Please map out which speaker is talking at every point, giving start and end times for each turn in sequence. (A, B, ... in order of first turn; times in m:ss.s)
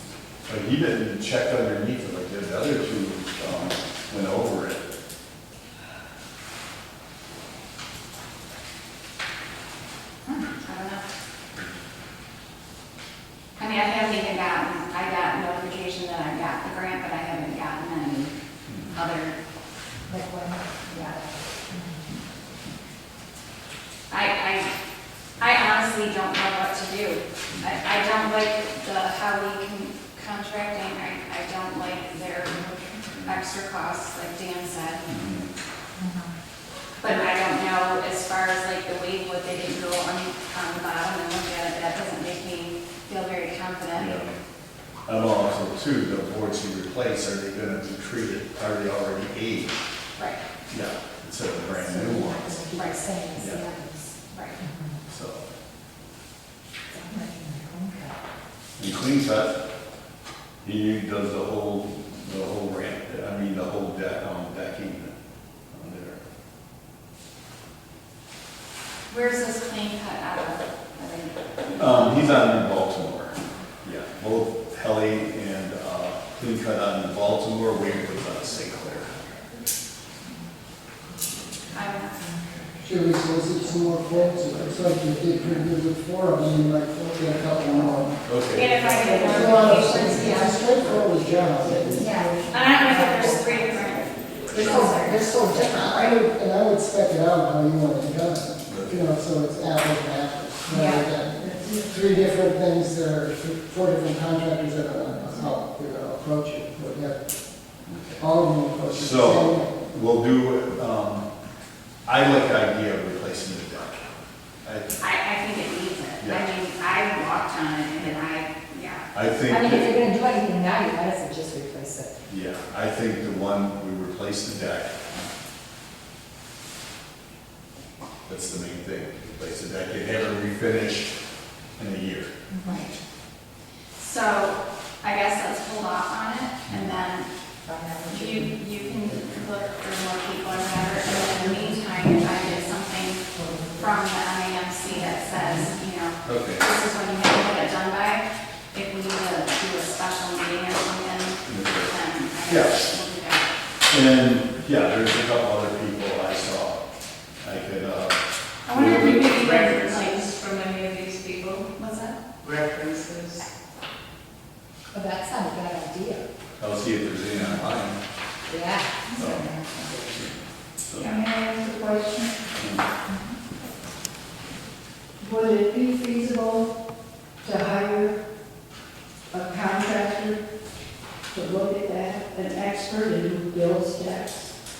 0:00.5-0:04.9 A
0:10.2-0:11.0 B
0:13.6-0:18.3 B
0:18.7-0:19.0 A
0:18.9-0:19.4 B
0:20.1-0:22.0 C
0:20.9-0:21.2 B
0:24.1-0:24.7 B
0:25.4-0:35.0 B
0:33.1-0:33.4 A
0:35.0-0:35.5 A
0:36.0-0:36.3 C
0:37.0-0:44.2 B
0:44.0-0:44.3 A
0:45.1-0:49.8 A
0:50.7-0:52.8 A
0:51.7-0:55.0 C
0:52.7-0:53.1 B
0:53.3-0:53.7 A
0:54.3-0:54.6 B
0:55.1-0:55.5 A
0:56.9-0:58.2 C
0:58.8-0:59.6 A
1:00.6-1:05.1 A
1:05.7-1:06.2 A
1:09.1-1:12.6 B
1:11.8-1:19.3 A
1:21.7-1:22.3 B
1:22.1-1:22.8 C
1:22.8-1:28.2 D
1:28.2-1:29.5 A
1:28.5-1:30.7 B
1:29.0-1:32.5 D
1:30.0-1:30.6 C
1:31.9-1:33.4 C
1:32.4-1:35.3 B
1:34.5-1:47.3 D
1:34.5-1:36.1 C
1:38.6-1:39.1 A
1:40.7-1:41.0 C
1:41.4-1:41.9 E
1:47.8-1:48.2 A
1:48.2-1:49.9 D
1:48.9-1:51.2 A
1:52.0-1:54.1 A
1:54.6-1:55.0 A
1:55.0-1:59.1 B
1:56.2-1:56.4 A
1:59.1-1:59.9 A
1:59.5-2:02.1 C
2:02.3-2:05.1 A
2:08.2-2:11.2 A
2:11.8-2:12.3 A
2:12.5-2:12.8 C
2:12.6-2:12.9 B
2:14.0-2:17.3 B
2:16.7-2:17.0 A
2:17.6-2:18.5 C
2:18.1-2:33.5 B
2:26.2-2:26.6 A
2:31.4-2:31.9 A
2:32.4-2:32.8 A
2:33.9-2:36.8 A
2:37.4-2:39.2 A
2:38.6-2:40.4 B
2:39.1-2:41.7 F
2:41.7-2:42.2 B
2:42.4-2:43.5 F
2:44.9-2:46.2 C
2:46.6-2:48.0 A
2:47.4-2:47.6 C
2:48.5-2:50.2 C
2:49.1-2:49.5 A
2:50.1-2:50.3 A
2:50.8-2:51.2 A
2:51.0-2:52.5 E
2:52.5-2:52.8 A
2:53.1-2:53.4 C
2:55.2-2:56.7 E
2:57.4-2:58.2 E
2:59.3-3:00.4 E
3:01.3-3:04.5 E